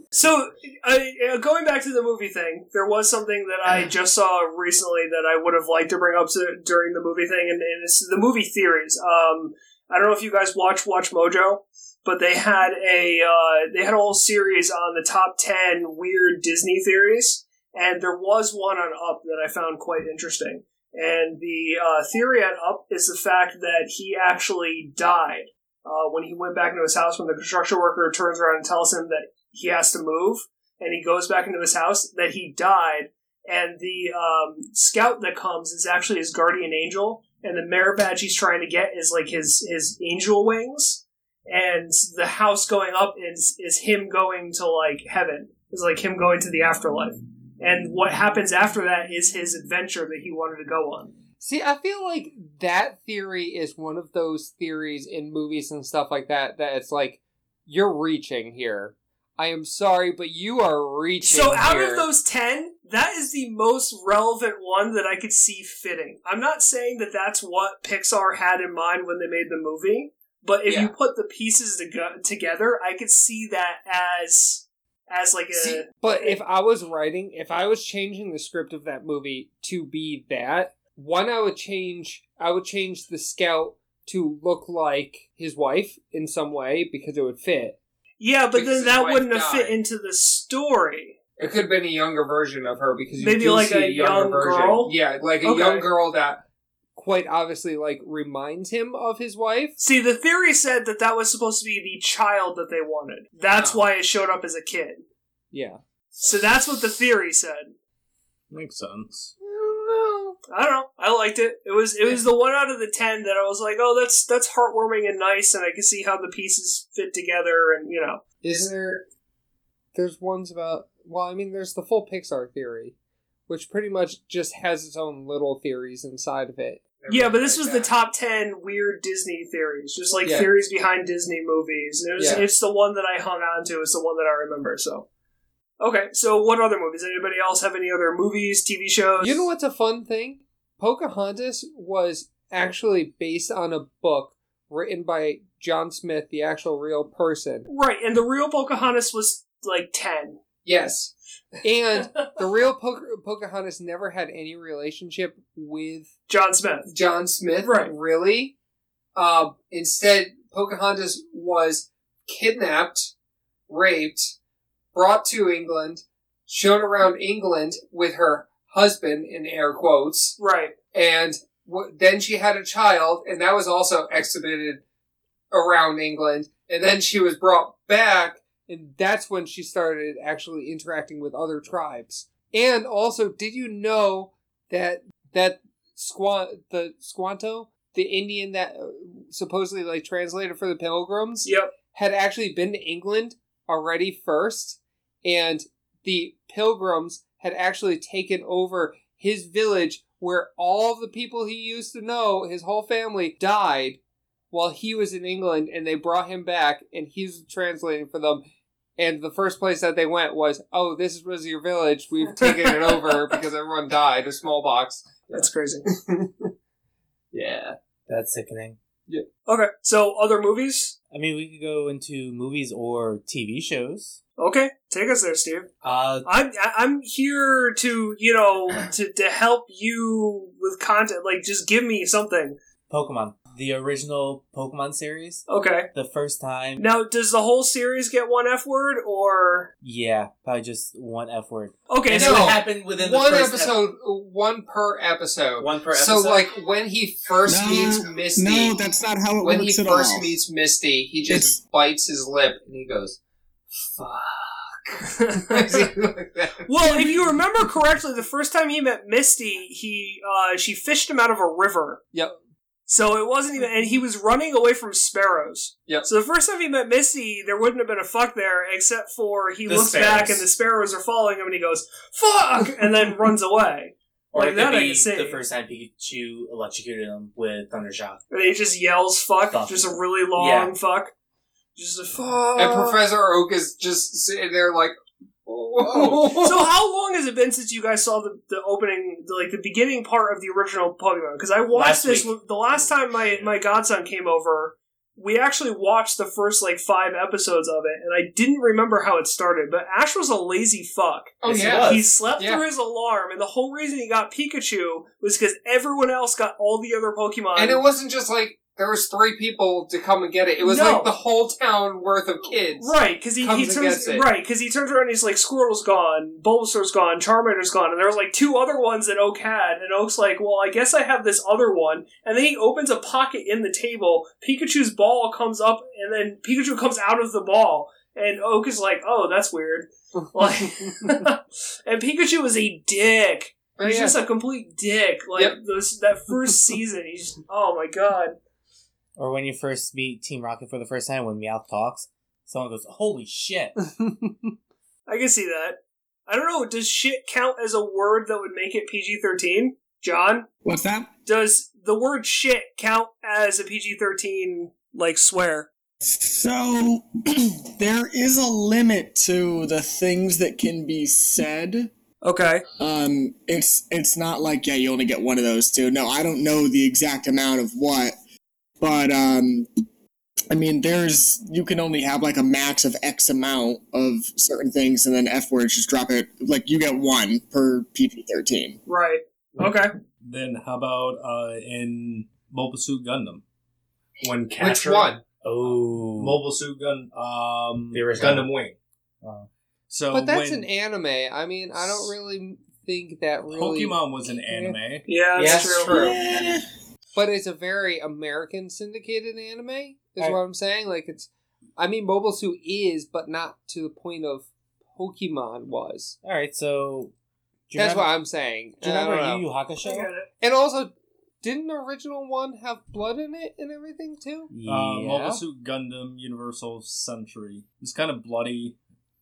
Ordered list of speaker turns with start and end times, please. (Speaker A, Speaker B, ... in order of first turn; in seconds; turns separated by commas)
Speaker A: 0.1-51.1, Speaker B: 51.4-62.1, Speaker A: 61.2-76.4, Speaker B: 70.6-70.9, Speaker B: 75.5-87.8, Speaker A: 88.2-91.2, Speaker B: 88.5-89.8, Speaker B: 91.4-96.4, Speaker A: 93.2-95.9, Speaker B: 97.0-99.8, Speaker A: 99.8-105.0, Speaker B: 103.5-103.8, Speaker B: 105.5-105.8, Speaker A: 106.2-107.7, Speaker C: 108.5-109.3, Speaker B: 109.4-110.4, Speaker A: 110.5-118.2, Speaker B: 118.4-119.0, Speaker B: 119.9-122.9, Speaker B: 123.5-127.9, Speaker A: 127.1-135.1, Speaker B: 130.2-130.5, Speaker B: 132.2-132.4, Speaker A: 135.8-139.5, Speaker B: 139.2-147.7, Speaker A: 147.7-150.4, Speaker B: 150.6-156.1, Speaker A: 152.0-152.2, Speaker A: 156.3-156.9, Speaker B: 156.9-158.5, Speaker A: 157.6-157.9, Speaker B: 159.1-163.1, Speaker B: 163.7-164.3, Speaker B: 164.9-170.4, Speaker A: 170.4-170.7, Speaker B: 170.9-174.8, Speaker B: 175.5-204.0, Speaker A: 191.4-191.7, Speaker B: 204.5-208.4, Speaker B: 209.0-216.5, Speaker A: 212.4-213.0, Speaker A: 215.3-215.9, Speaker B: 217.3-217.8, Speaker D: 218.1-218.8, Speaker A: 219.4-220.9, Speaker D: 221.1-224.2, Speaker A: 224.4-225.7, Speaker D: 225.8-226.3, Speaker A: 226.2-232.6, Speaker D: 232.9-236.9, Speaker A: 235.5-235.9, Speaker A: 236.8-239.7, Speaker D: 239.8-243.8, Speaker A: 241.9-242.6, Speaker B: 242.1-248.8, Speaker D: 245.6-246.5, Speaker E: 247.4-250.4, Speaker B: 249.4-253.2, Speaker B: 253.7-257.1, Speaker A: 255.5-255.8, Speaker A: 256.7-262.0, Speaker A: 262.9-275.4, Speaker D: 269.6-270.5, Speaker D: 274.3-278.2, Speaker A: 278.3-281.1, Speaker D: 279.5-280.7, Speaker A: 281.8-283.0, Speaker B: 282.6-286.7, Speaker A: 286.3-307.8, Speaker D: 291.7-292.3, Speaker B: 301.4-302.6, Speaker D: 301.4-302.1, Speaker B: 307.6-314.3, Speaker A: 310.6-311.1, Speaker A: 312.7-338.4, Speaker B: 333.8-334.2, Speaker D: 339.1-343.8, Speaker B: 344.0-344.3, Speaker A: 345.1-350.5, Speaker E: 350.6-351.1, Speaker A: 351.2-355.7, Speaker E: 356.0-361.9, Speaker A: 362.2-362.6, Speaker E: 362.8-368.1, Speaker E: 368.8-369.7, Speaker E: 370.5-378.8, Speaker A: 378.9-379.9, Speaker C: 380.2-383.4, Speaker C: 384.2-388.8, Speaker B: 384.6-385.2, Speaker D: 385.4-386.4, Speaker D: 387.9-388.5, Speaker D: 389.2-389.5, Speaker C: 389.9-390.7, Speaker B: 390.1-394.8, Speaker C: 393.5-395.1, Speaker A: 395.1-395.9, Speaker D: 395.4-396.0, Speaker B: 395.4-396.2, Speaker E: 395.9-396.6, Speaker B: 397.1-406.1, Speaker D: 406.2-407.1, Speaker D: 407.7-408.1, Speaker B: 407.8-409.4, Speaker D: 408.8-410.1, Speaker A: 409.8-410.3, Speaker B: 410.4-414.5, Speaker D: 414.5-415.4, Speaker C: 414.6-418.8